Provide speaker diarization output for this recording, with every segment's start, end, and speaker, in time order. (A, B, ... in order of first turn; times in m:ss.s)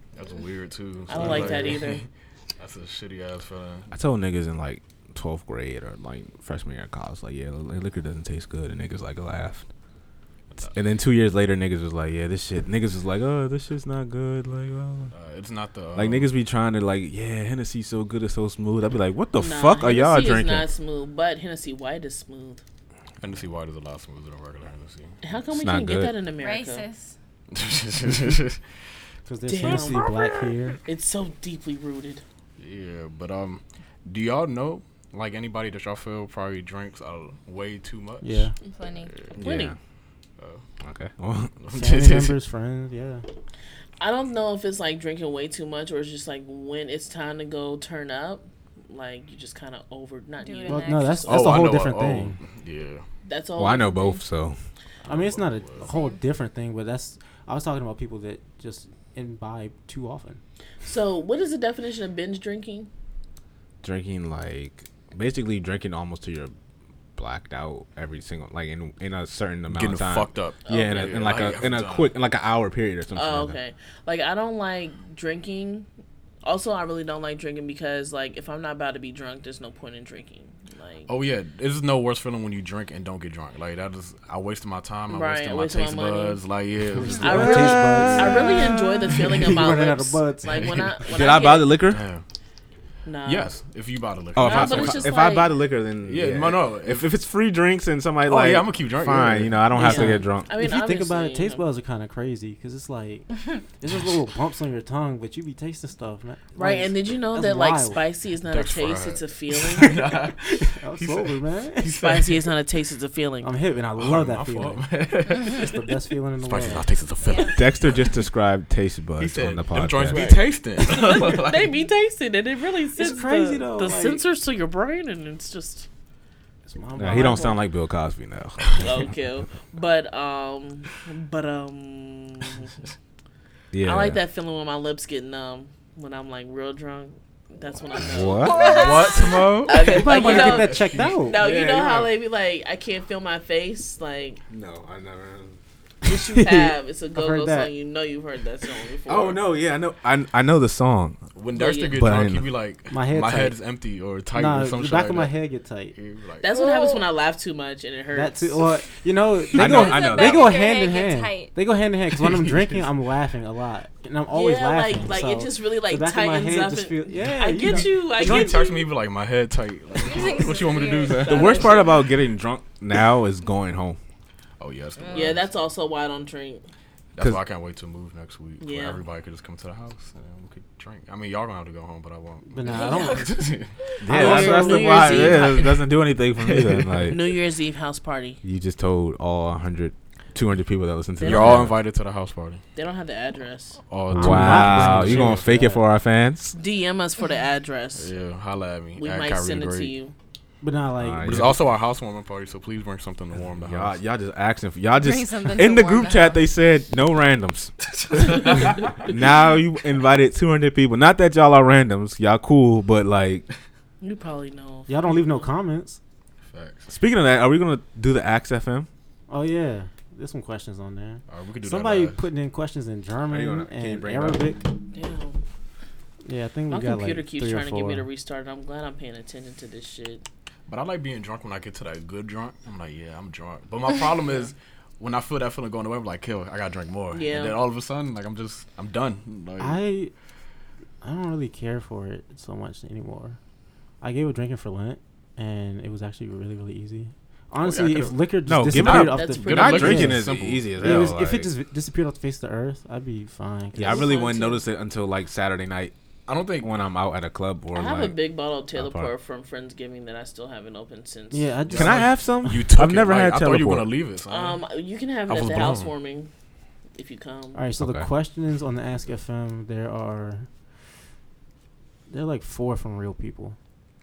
0:00.1-0:03.9 A
0:01.1-0:02.0 B
0:01.2-0:01.7 C
0:03.9-0:09.7 D
0:10.7-0:15.1 D
0:15.1-0:16.3 A
0:16.0-0:20.7 D
0:19.4-0:22.6 B
0:23.2-0:25.2 A
0:25.2-0:26.9 B
0:25.5-0:26.1 D
0:26.4-0:27.2 E
0:27.5-0:28.6 A
0:29.3-0:30.8 C
0:29.5-0:30.1 B
0:30.8-0:32.2 B
0:32.6-0:39.4 A
0:38.2-0:38.5 C
0:38.6-0:39.1 E
0:39.4-0:39.8 D
0:39.4-0:39.8 B
0:40.4-0:40.6 A
0:40.8-0:41.6 D
0:41.6-0:42.4 A
0:41.7-0:43.2 C
0:44.0-0:51.5 B
0:50.4-0:51.5 E
0:50.7-0:52.4 C
0:51.3-0:53.1 A
0:53.2-0:54.2 B
0:53.6-0:54.6 D
0:55.0-0:55.9 A
0:55.1-1:00.4 C
0:55.8-0:56.2 E
1:00.8-1:02.9 B
1:03.8-1:06.5 D
1:07.2-1:13.6 D
1:09.7-1:12.1 A
1:10.7-1:11.3 B
1:13.2-1:15.9 B
1:16.4-1:21.1 B
1:21.1-1:28.6 A
1:25.1-1:26.4 B
1:26.9-1:30.8 C
1:27.2-1:31.8 B
1:30.5-1:30.9 A
1:31.1-1:32.0 D
1:31.9-1:32.2 A
1:33.0-1:33.5 B
1:33.2-1:35.1 A
1:34.4-1:40.5 D
1:34.4-1:35.5 B
1:36.0-1:37.1 A
1:38.2-1:39.8 A
1:39.7-1:48.0 C
1:39.8-1:41.6 B
1:46.6-1:50.0 B
1:48.4-1:52.5 A
1:50.6-1:52.0 C
1:52.0-1:53.5 B
1:53.4-1:54.9 C
1:54.0-1:55.8 A
1:55.4-1:56.9 C
1:56.4-1:58.1 A
1:57.2-1:57.6 E
1:57.5-2:00.3 D
1:59.2-2:01.7 A
2:00.1-2:05.9 B
2:03.0-2:04.2 C
2:06.7-2:07.6 C
2:07.0-2:08.8 D
2:07.1-2:07.5 B
2:08.8-2:12.7 B
2:13.7-2:14.2 D
2:13.8-2:24.4 B
2:18.0-2:18.7 D
2:18.4-2:19.5 E
2:18.6-2:22.1 A
2:19.9-2:21.4 C
2:21.4-2:22.0 D
2:24.5-2:25.6 D
2:26.0-2:29.4 B
2:26.0-2:27.7 C
2:29.1-2:31.2 D
2:31.4-2:35.3 A
2:31.5-2:32.0 B
2:31.9-2:32.5 D
2:32.9-2:33.6 C
2:34.3-2:36.0 C
2:35.9-2:36.5 A
2:36.4-2:38.6 B
2:36.5-2:37.1 E
2:38.1-2:48.7 C
2:39.5-2:41.5 E
2:39.6-2:40.6 D
2:42.2-2:42.8 A
2:44.3-2:48.8 B
2:47.8-2:51.7 A
2:50.0-2:51.5 E
2:50.8-2:52.1 B
2:51.2-2:54.0 D
2:54.6-2:55.5 A
2:55.0-2:55.3 E
2:55.1-2:56.6 B
2:57.1-3:03.8 A
2:58.6-2:59.0 B
3:02.5-3:03.4 C
3:02.7-3:03.2 E
3:02.7-3:03.3 B
3:04.0-3:07.2 D
3:04.0-3:05.8 B
3:04.1-3:05.3 C
3:06.4-3:07.1 A
3:07.1-3:08.4 B
3:08.4-3:11.8 D
3:11.2-3:11.7 B
3:11.2-3:12.6 A
3:12.8-3:13.8 B
3:13.9-3:15.5 A
3:14.1-3:16.6 D
3:14.1-3:15.8 C
3:16.6-3:18.1 B
3:18.0-3:19.9 A
3:19.0-3:20.1 B
3:20.6-3:21.6 C
3:21.0-3:21.6 D
3:21.2-3:24.0 A
3:23.5-3:33.5 D
3:24.9-3:26.4 E
3:28.0-3:29.1 A
3:34.0-3:35.5 B
3:34.9-3:36.0 C
3:36.4-3:36.9 A
3:36.9-3:38.9 D
3:39.3-3:44.6 C
3:41.3-3:42.2 A
3:43.3-3:44.5 D
3:44.9-3:45.4 B
3:46.2-3:48.1 C
3:46.7-3:50.2 B
3:50.7-3:59.8 A
3:57.1-3:57.6 B
3:59.6-4:00.1 C
4:01.0-4:03.4 C
4:04.0-4:14.1 C
4:07.6-4:08.2 A
4:08.5-4:11.5 D
4:08.8-4:11.2 A
4:08.8-4:10.1 B
4:13.8-4:15.9 D
4:13.8-4:14.6 B
4:16.3-4:16.8 A
4:16.6-4:18.2 D
4:17.7-4:21.5 B
4:18.8-4:19.1 D
4:21.3-4:22.6 C
4:21.7-4:24.6 A
4:21.7-4:23.9 D
4:24.3-4:26.3 B
4:25.3-4:25.9 A
4:27.0-4:27.6 B
4:27.6-4:30.5 C
4:27.8-4:28.1 D
4:32.1-4:33.6 C